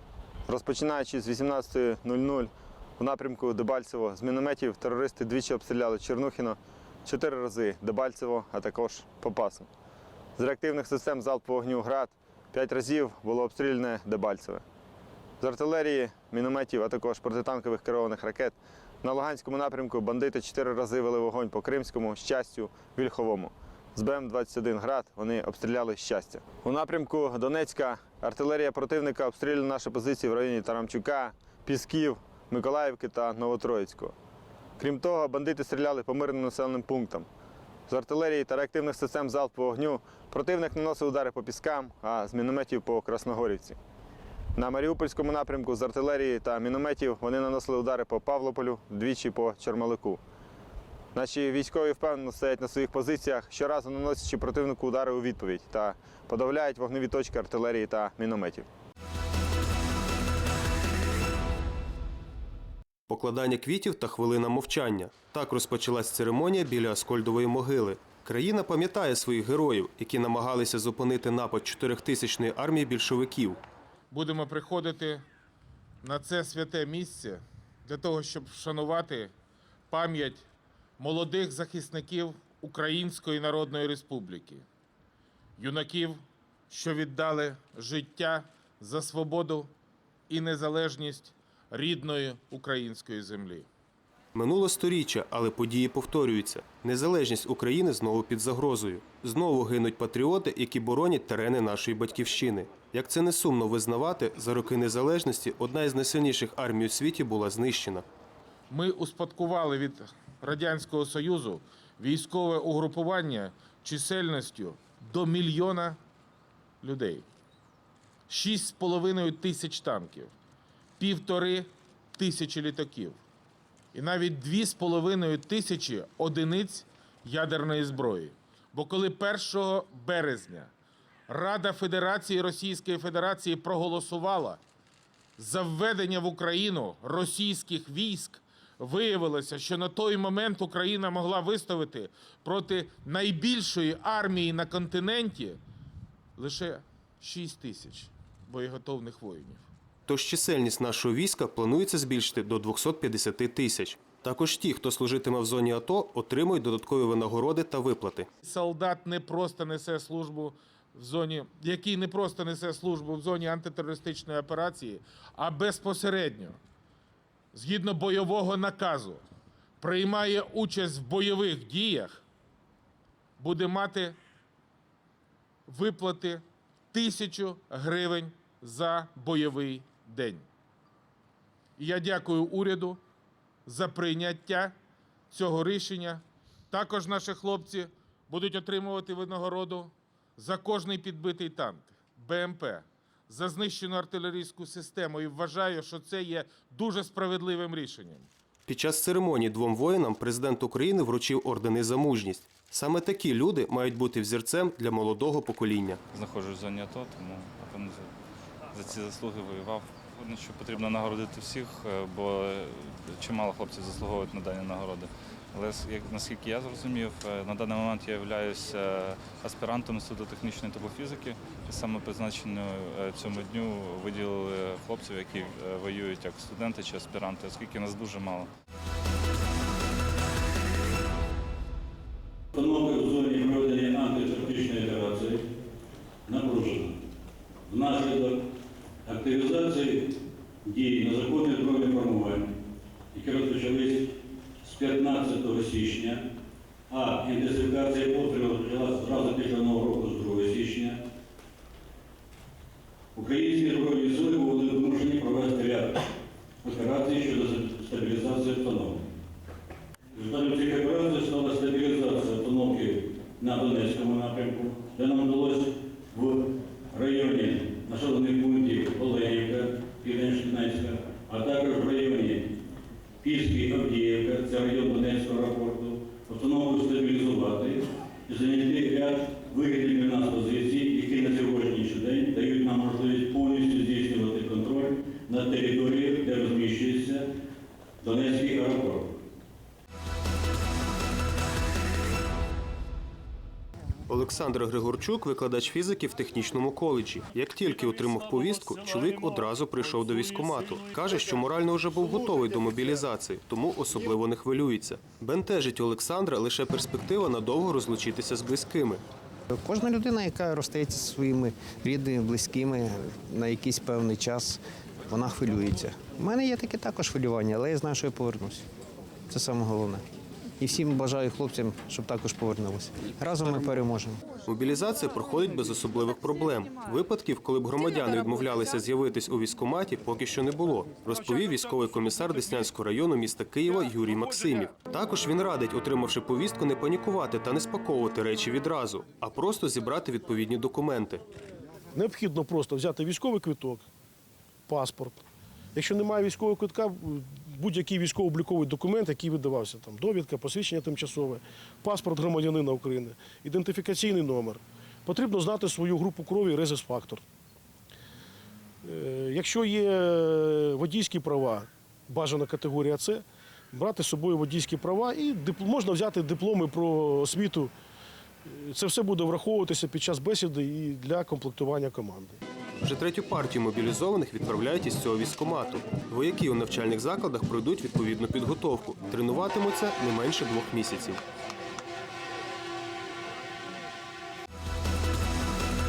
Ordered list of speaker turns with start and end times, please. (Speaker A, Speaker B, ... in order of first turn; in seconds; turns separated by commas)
Speaker A: 0.5-9.7, Speaker A: 10.4-14.6, Speaker A: 15.4-34.1, Speaker A: 34.8-37.3, Speaker A: 37.9-43.8, Speaker A: 44.6-50.2, Speaker A: 51.1-58.7, Speaker B: 63.1-73.6, Speaker C: 74.1-75.2, Speaker C: 76.0-79.3, Speaker C: 79.9-80.5, Speaker C: 81.0-84.7, Speaker C: 85.6-89.7, Speaker C: 90.3-93.7, Speaker B: 94.3-108.1, Speaker C: 108.7-116.0, Speaker C: 116.8-117.3, Speaker C: 118.3-120.3, Speaker C: 121.0-123.2, Speaker C: 123.9-130.7, Speaker C: 131.3-134.6, Speaker C: 135.4-145.6, Speaker C: 146.4-149.7, Speaker B: 150.1-158.3, Speaker C: 158.4-166.6, Speaker C: 167.5-169.2, Speaker C: 169.8-172.2, Speaker C: 173.4-174.2, Speaker C: 175.7-180.5, Speaker C: 181.8-183.0, Speaker C: 183.7-184.7, Speaker C: 185.3-198.3, Speaker B: 198.7-206.0, Speaker D: 206.1-208.1, Speaker D: 208.7-228.5, Speaker E: 232.5-235.5, Speaker E: 236.3-237.0, Speaker E: 237.7-238.5, Speaker E: 239.1-242.6, Speaker E: 243.1-246.2, Speaker E: 246.9-251.0, Speaker E: 253.2-256.0, Speaker E: 256.6-259.1, Speaker E: 260.1-272.5, Speaker E: 273.2-287.3, Speaker E: 288.0-289.2, Speaker B: 294.1-309.0, Speaker F: 309.5-318.7, Speaker F: 319.3-320.1, Speaker F: 320.6-324.2, Speaker B: 324.4-341.2, Speaker G: 341.9-343.9, Speaker G: 344.7-345.2, Speaker G: 345.8-357.2, Speaker G: 358.8-367.7, Speaker G: 368.5-372.4, Speaker B: 372.8-381.2